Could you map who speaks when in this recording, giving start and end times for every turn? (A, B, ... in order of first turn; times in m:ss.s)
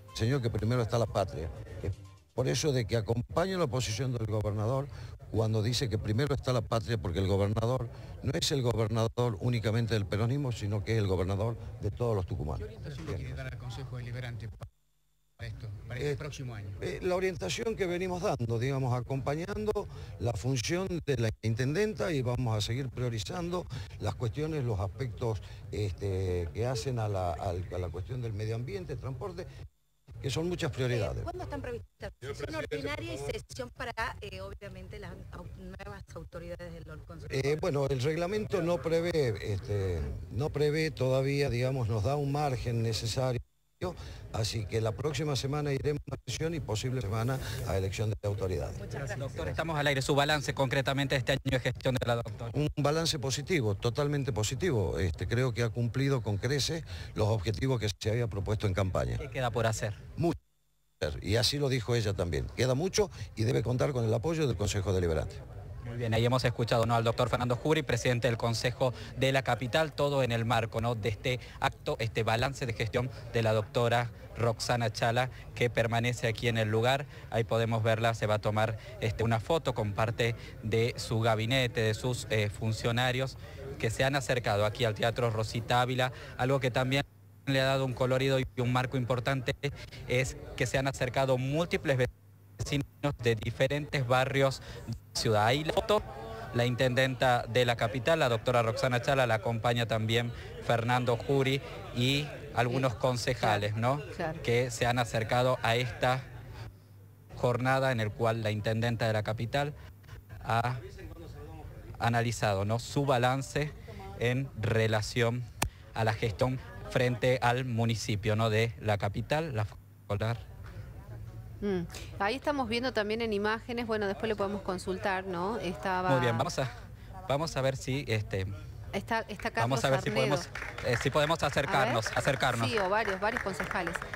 0:00.2-0:13.4 A
0:12.6-0:14.7 B
0:15.4-0:16.8 B
0:16.8-0:29.5 A
0:30.2-0:31.3 A
0:30.9-0:37.6 C
0:37.3-0:48.8 A
0:48.9-0:52.5 D
0:52.5-0:59.2 A
0:59.2-1:00.0 D
1:01.0-1:05.4 A
1:05.8-1:32.1 D
1:32.6-1:46.2 D
1:43.4-1:44.4 E
1:47.4-1:49.7 D
1:50.4-1:50.8 D
1:52.0-1:55.4 D
1:55.9-2:00.4 D
2:01.6-2:06.5 E
2:06.0-2:06.8 D
2:07.3-2:08.5 D
2:08.9-2:10.5 E
2:09.6-2:12.8 D
2:11.7-2:14.0 E